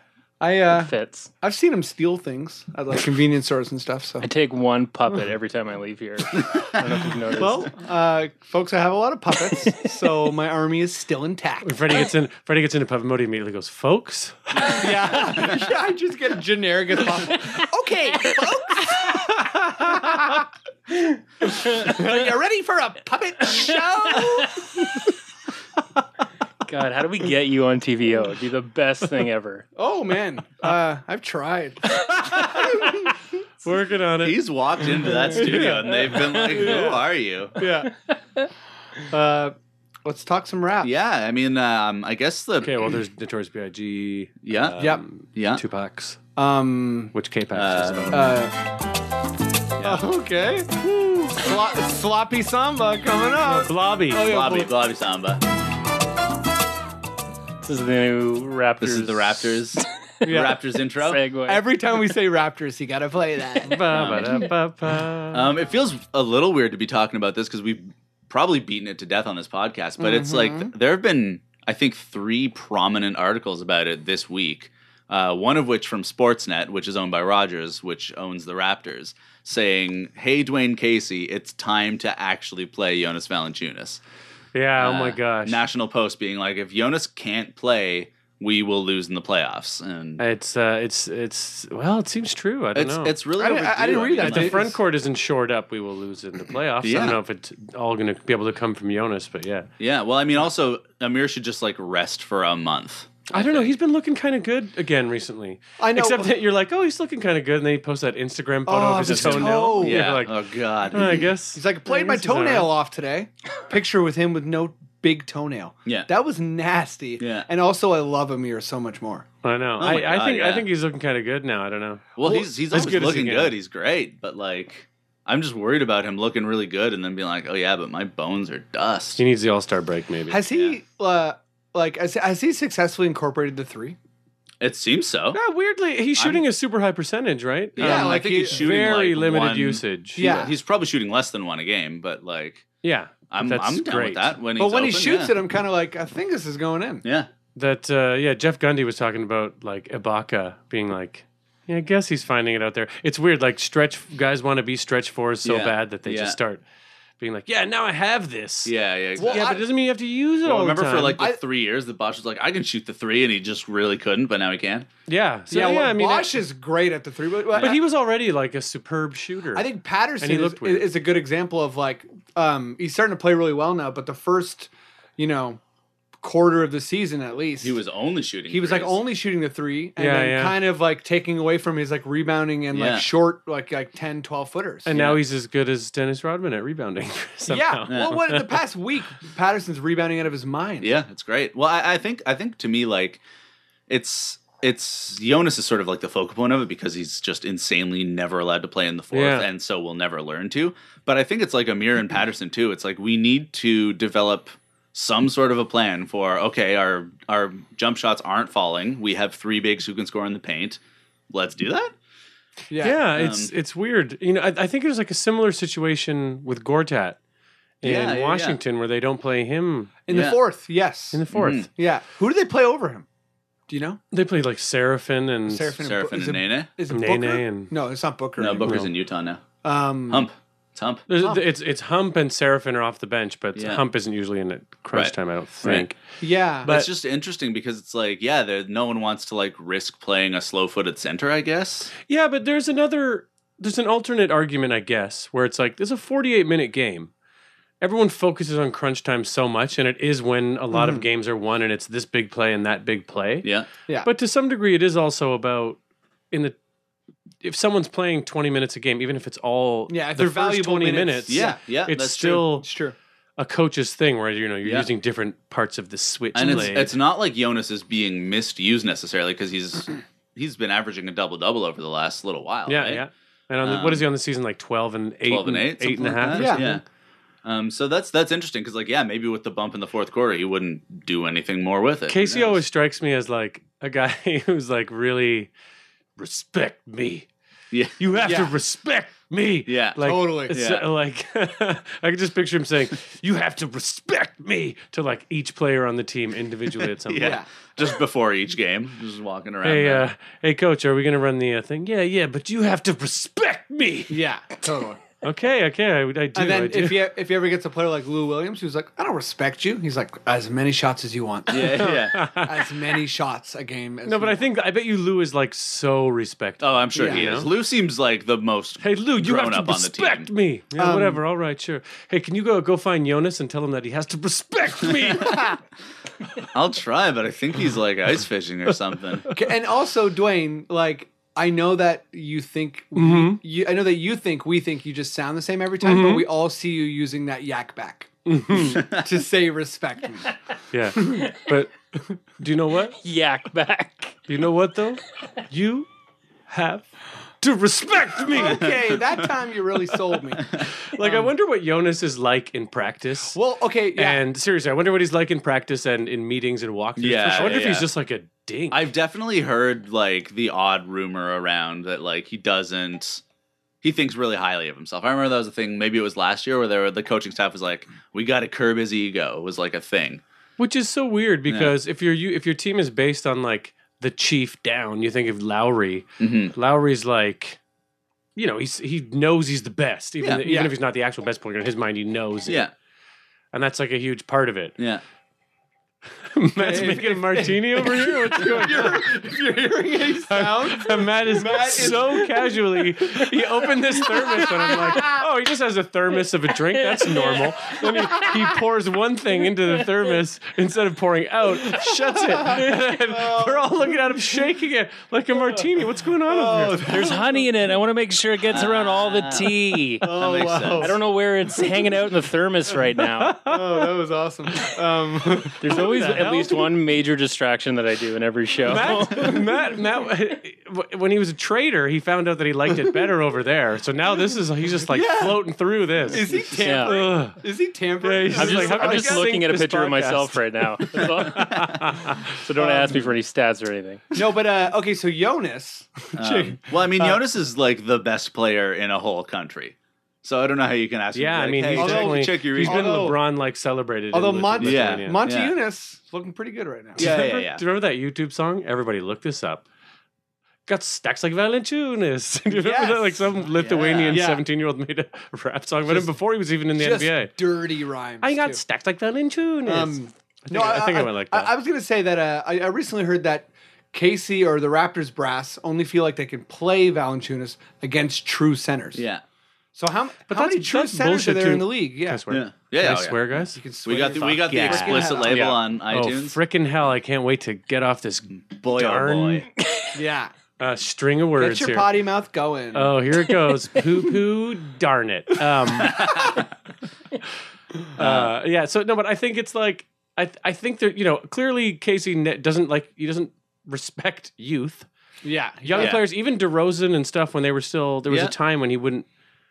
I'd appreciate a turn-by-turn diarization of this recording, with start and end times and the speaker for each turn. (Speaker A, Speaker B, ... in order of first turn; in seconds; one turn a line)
Speaker A: 0.4-4.2
Speaker B: 0.7-1.3
Speaker B: 4.2-7.7
Speaker C: 6.3-6.8
Speaker A: 7.3-12.0
Speaker D: 11.6-14.9
Speaker A: 14.7-20.5
Speaker A: 21.4-25.0
Speaker B: 21.8-22.1
Speaker B: 23.6-24.4
Speaker B: 26.6-29.6
Speaker A: 29.8-33.1
Speaker D: 33.6-34.4
Speaker C: 34.2-37.6
Speaker A: 35.3-37.0
Speaker B: 36.0-36.7
Speaker A: 37.6-37.9
Speaker A: 39.1-40.9
Speaker C: 40.8-43.0
Speaker D: 42.6-46.2
Speaker C: 44.4-45.6
Speaker A: 46.4-47.1
Speaker D: 47.1-48.4
Speaker C: 47.5-48.3
Speaker A: 48.1-48.5
Speaker C: 49.8-50.0
Speaker A: 49.8-54.7
Speaker D: 53.6-54.3
Speaker C: 54.1-55.4
Speaker B: 57.6-59.8
Speaker C: 58.8-61.2
Speaker A: 60.2-60.6
Speaker B: 60.4-61.8
Speaker A: 61.5-63.9
Speaker D: 63.6-65.5
Speaker C: 63.9-64.4
Speaker C: 65.3-84.0
Speaker A: 70.0-70.7
Speaker D: 84.5-85.6
Speaker C: 84.8-90.2
Speaker D: 90.2-93.2
Speaker C: 92.7-94.6
Speaker A: 93.4-94.8
Speaker D: 94.2-99.7
Speaker C: 96.8-97.2
Speaker A: 96.9-97.2
Speaker C: 99.8-103.7
Speaker D: 103.3-112.7
Speaker A: 105.8-106.3
Speaker A: 108.7-110.2
Speaker C: 109.0-111.3
Speaker A: 111.1-119.3
Speaker C: 117.2-117.5
Speaker D: 119.4-123.5
Speaker C: 119.8-120.7
Speaker C: 122.2-129.2
Speaker D: 129.2-130.4
Speaker A: 130.3-134.0
Speaker C: 130.5-130.8
Speaker C: 134.6-135.4
Speaker D: 135.3-140.4
Speaker C: 136.1-136.4
Speaker C: 137.8-142.7
Speaker A: 137.8-138.6
Speaker A: 140.2-140.5
Speaker D: 142.8-144.3
Speaker C: 143.3-145.4
Speaker A: 144.6-147.0
Speaker C: 147.0-147.3
Speaker D: 147.5-156.6
Speaker C: 155.4-156.4
Speaker D: 157.2-161.2
Speaker C: 158.6-159.5
Speaker A: 159.2-159.7
Speaker C: 160.4-164.9
Speaker D: 165.1-166.4
Speaker A: 165.5-167.8
Speaker D: 167.6-169.7
Speaker A: 169.5-175.6
Speaker D: 170.2-170.9
Speaker A: 176.2-177.8
Speaker C: 177.6-179.0
Speaker A: 178.5-184.9
Speaker D: 180.0-180.6
Speaker C: 182.7-183.1
Speaker D: 184.8-188.6
Speaker C: 184.9-185.2
Speaker A: 187.5-190.9
Speaker C: 187.9-188.2
Speaker C: 190.8-193.2
Speaker C: 193.9-211.9
Speaker D: 199.1-199.5
Speaker A: 212.7-213.0
Speaker D: 212.8-217.2
Speaker C: 213.1-213.5
Speaker D: 217.8-219.9
Speaker C: 217.8-218.6
Speaker A: 220.1-223.1
Speaker C: 220.1-220.4
Speaker D: 221.1-221.7
Speaker C: 221.3-221.7
Speaker A: 223.7-224.0
Speaker D: 224.1-225.7
Speaker A: 225.5-228.9
Speaker C: 225.8-226.7
Speaker D: 226.9-227.7
Speaker C: 228.4-229.4
Speaker A: 229.6-230.3
Speaker C: 230.1-231.1
Speaker D: 231.1-236.0
Speaker A: 231.2-231.4
Speaker C: 233.6-233.8
Speaker C: 234.9-235.9
Speaker A: 236.2-236.7
Speaker C: 236.6-241.9
Speaker D: 236.6-236.9
Speaker D: 242.1-247.1
Speaker D: 247.8-253.5
Speaker A: 250.7-251.0
Speaker C: 253.4-253.7
Speaker D: 254.0-255.8
Speaker D: 256.3-256.6
Speaker D: 257.4-262.7
Speaker A: 259.9-261.6
Speaker C: 261.3-262.5
Speaker A: 262.4-262.9
Speaker D: 263.4-266.9
Speaker C: 266.3-273.0
Speaker D: 272.7-276.8
Speaker C: 273.6-274.0
Speaker C: 275.3-276.8
Speaker A: 276.3-276.7
Speaker C: 277.4-282.6
Speaker D: 282.1-285.5
Speaker D: 286.2-287.3
Speaker C: 287.7-288.1
Speaker D: 288.0-297.4
Speaker A: 288.2-288.5
Speaker C: 289.7-290.9
Speaker A: 290.0-290.6
Speaker C: 297.0-300.1
Speaker A: 297.2-297.5
Speaker D: 299.6-304.2
Speaker A: 304.1-305.0
Speaker D: 305.2-307.0
Speaker A: 306.4-314.5
Speaker C: 311.5-312.2
Speaker D: 311.7-312.5
Speaker D: 314.1-317.5
Speaker C: 316.6-320.3
Speaker A: 316.9-317.3
Speaker D: 318.8-325.6
Speaker A: 320.8-321.2
Speaker C: 324.8-325.4
Speaker C: 326.4-329.2
Speaker A: 329.3-340.3
Speaker D: 332.9-333.4
Speaker D: 335.8-336.3
Speaker D: 338.3-338.8
Speaker D: 340.7-343.0
Speaker B: 343.0-344.2
Speaker D: 344.3-345.9
Speaker D: 346.5-346.9
Speaker D: 347.4-348.8
Speaker A: 348.3-351.3
Speaker D: 350.8-353.4
Speaker A: 353.3-354.2
Speaker D: 353.9-358.9
Speaker C: 357.0-357.9
Speaker C: 358.7-363.2
Speaker C: 363.8-370.2
Speaker D: 370.6-377.6
Speaker C: 371.5-371.7
Speaker C: 376.2-376.5
Speaker D: 378.4-382.7
Speaker C: 380.2-380.5
Speaker A: 380.4-380.7
Speaker C: 382.5-382.7
Speaker D: 383.5-384.8
Speaker C: 384.8-385.0
Speaker D: 386.3-389.1
Speaker A: 386.6-395.2
Speaker D: 390.3-407.1
Speaker B: 396.9-398.2
Speaker A: 401.7-403.9
Speaker A: 406.3-407.5
Speaker B: 406.8-410.1
Speaker C: 408.5-411.0
Speaker A: 410.0-411.0
Speaker B: 410.8-413.4
Speaker D: 413.2-413.9
Speaker A: 413.4-416.3
Speaker B: 415.6-419.4
Speaker D: 415.7-416.6
Speaker D: 418.6-427.4
Speaker A: 424.9-425.5
Speaker A: 426.0-429.4
Speaker B: 426.6-426.9
Speaker D: 428.0-432.3
Speaker B: 428.3-434.0
Speaker A: 432.6-433.1
Speaker A: 434.1-437.2
Speaker C: 436.2-443.1
Speaker D: 441.1-445.2
Speaker A: 441.7-443.2
Speaker A: 444.1-447.1
Speaker C: 444.6-445.5
Speaker C: 446.9-447.6
Speaker D: 447.0-449.6
Speaker D: 450.7-457.3
Speaker A: 452.5-453.3
Speaker C: 453.5-454.3
Speaker A: 454.1-454.4
Speaker A: 456.7-458.6
Speaker D: 458.2-461.5
Speaker A: 459.6-469.1
Speaker C: 468.9-469.2
Speaker A: 469.8-472.2
Speaker D: 470.3-473.6
Speaker C: 472.3-473.2
Speaker A: 473.4-475.4
Speaker C: 473.8-476.4
Speaker D: 474.2-475.4
Speaker B: 475.3-475.6
Speaker D: 475.9-479.5
Speaker C: 478.3-479.5
Speaker A: 479.9-480.3
Speaker D: 480.6-481.9
Speaker A: 481.4-483.0
Speaker D: 482.7-486.2
Speaker A: 485.8-486.4
Speaker C: 485.8-486.4
Speaker D: 487.9-494.9
Speaker C: 488.0-488.3
Speaker A: 495.2-496.0
Speaker D: 495.6-499.1
Speaker C: 495.8-496.0
Speaker C: 498.1-498.3